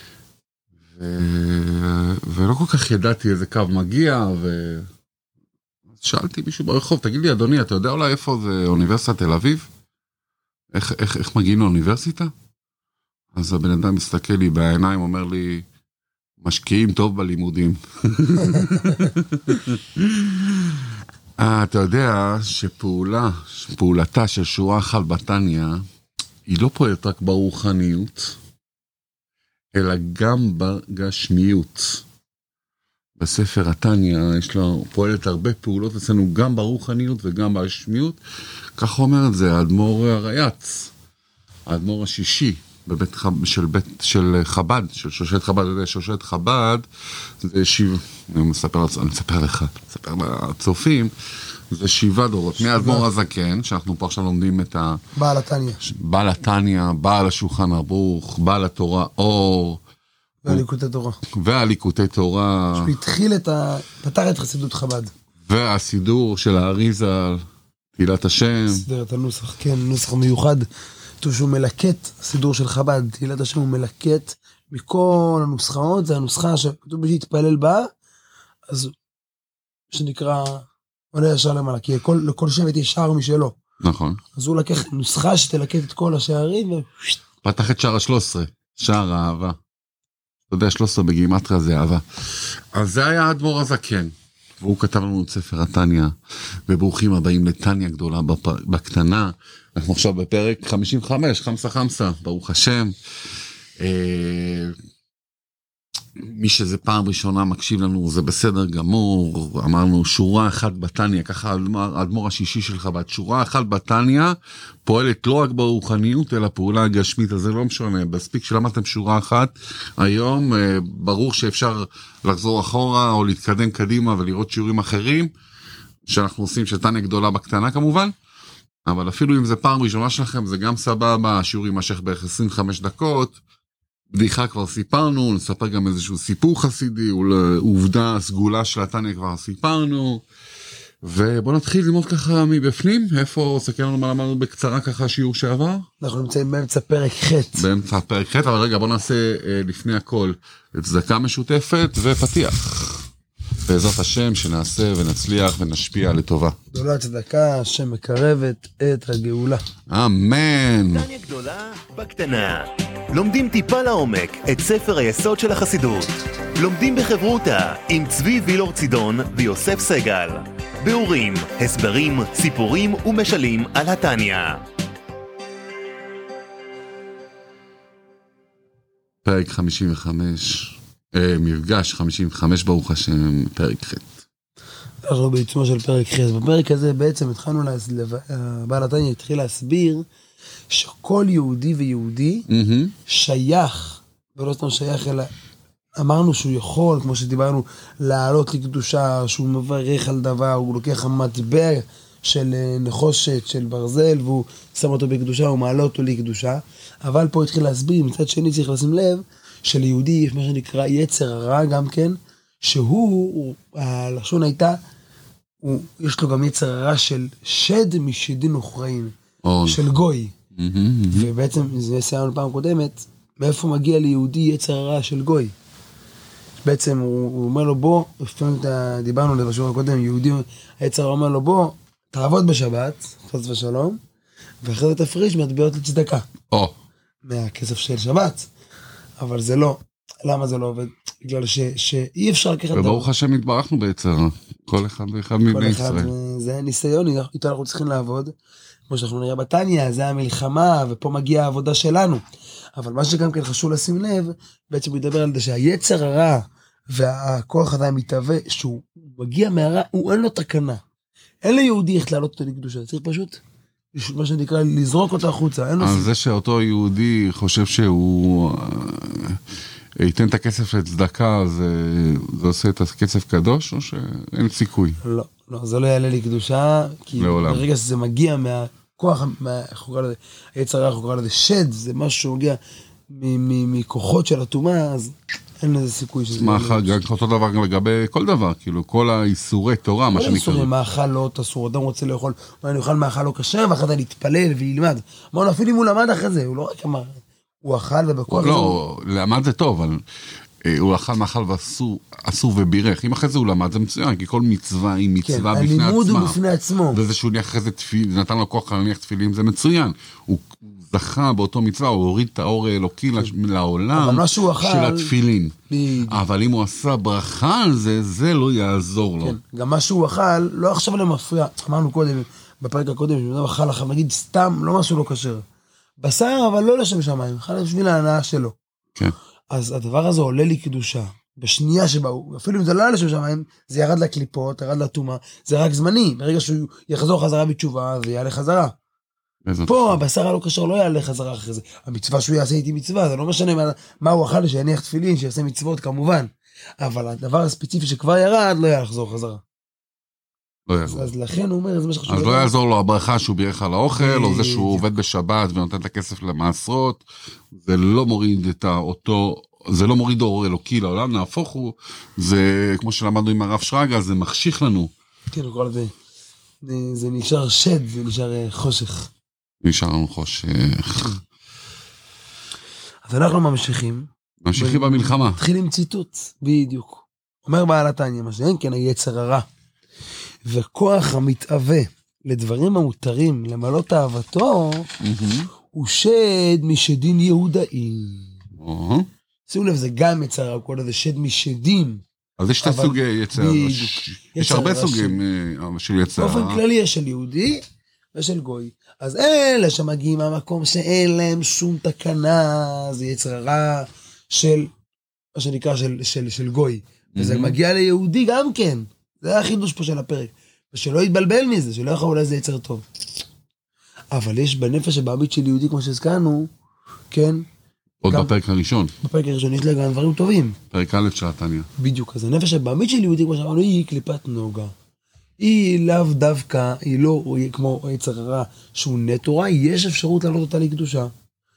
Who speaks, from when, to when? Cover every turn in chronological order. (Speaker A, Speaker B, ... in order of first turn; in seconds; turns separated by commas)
Speaker A: 0.9-4.9, Speaker A: 6.0-9.7, Speaker A: 10.7-12.3, Speaker A: 13.3-15.7, Speaker A: 16.4-20.7, Speaker A: 21.4-25.8, Speaker A: 26.5-28.4, Speaker A: 29.7-32.0, Speaker A: 33.2-38.2, Speaker A: 38.8-40.9, Speaker A: 41.7-46.8, Speaker A: 47.4-51.1, Speaker A: 51.7-55.0, Speaker B: 52.6-53.1, Speaker B: 55.1-55.8, Speaker A: 55.8-59.8, Speaker B: 60.4-61.2, Speaker A: 61.3-62.9, Speaker B: 62.8-65.1, Speaker A: 65.5-67.4, Speaker A: 68.0-68.8, Speaker B: 68.7-70.7, Speaker B: 71.2-77.9, Speaker B: 78.7-78.9, Speaker B: 79.9-83.5, Speaker A: 83.8-84.2, Speaker B: 84.3-87.2, Speaker A: 87.4-89.6, Speaker A: 90.5-96.1, Speaker A: 96.7-102.9, Speaker A: 103.8-104.8, Speaker A: 106.2-125.3, Speaker A: 126.1-128.1, Speaker A: 128.8-133.4, Speaker A: 134.1-140.2, Speaker A: 141.0-145.8, Speaker B: 146.0-147.6, Speaker A: 147.5-153.1, Speaker A: 153.7-156.6, Speaker B: 156.7-159.6, Speaker A: 159.9-161.1, Speaker C: 160.9-174.6, Speaker A: 179.2-184.1, Speaker B: 185.0-190.1, Speaker B: 190.7-192.4, Speaker A: 192.5-192.9, Speaker B: 193.1-195.3, Speaker B: 196.0-214.8, Speaker B: 215.6-219.1, Speaker A: 219.4-219.8, Speaker B: 219.7-220.3, Speaker A: 220.5-221.3, Speaker B: 221.1-225.5, Speaker B: 226.6-234.0, Speaker B: 234.6-236.2, Speaker B: 237.2-238.5, Speaker B: 239.2-243.1, Speaker A: 242.7-246.1, Speaker B: 245.5-248.3, Speaker B: 248.9-252.2, Speaker B: 252.8-260.8, Speaker B: 261.4-263.4, Speaker B: 263.9-266.1, Speaker A: 265.8-269.4, Speaker A: 270.0-275.0, Speaker B: 275.0-287.0, Speaker A: 277.2-277.6, Speaker A: 286.3-290.7, Speaker B: 290.1-298.8, Speaker A: 298.3-300.0, Speaker A: 300.6-306.4, Speaker B: 305.2-307.0, Speaker A: 306.9-315.5, Speaker B: 313.9-315.1, Speaker B: 315.7-316.2, Speaker A: 316.1-319.4, Speaker B: 319.2-325.4, Speaker B: 326.0-328.6, Speaker B: 329.5-338.8, Speaker A: 339.4-340.0, Speaker B: 339.7-349.4, Speaker A: 350.7-351.1, Speaker B: 350.9-352.5, Speaker A: 352.1-364.9, Speaker B: 353.9-354.8, Speaker B: 365.3-365.9, Speaker B: 366.6-369.1, Speaker A: 369.6-371.2, Speaker B: 373.0-379.4, Speaker A: 374.4-375.4, Speaker B: 380.4-384.9, Speaker A: 385.0-385.5, Speaker B: 385.7-388.3, Speaker A: 388.6-389.1, Speaker B: 389.5-392.0, Speaker A: 392.4-396.6, Speaker B: 392.6-395.2, Speaker B: 396.2-397.6, Speaker B: 398.1-404.7, Speaker B: 405.3-412.9, Speaker A: 407.1-407.6, Speaker B: 414.1-416.5, Speaker B: 417.1-417.4, Speaker A: 418.0-418.9, Speaker B: 419.0-420.6, Speaker A: 420.7-421.7, Speaker B: 421.8-424.7, Speaker B: 425.4-431.1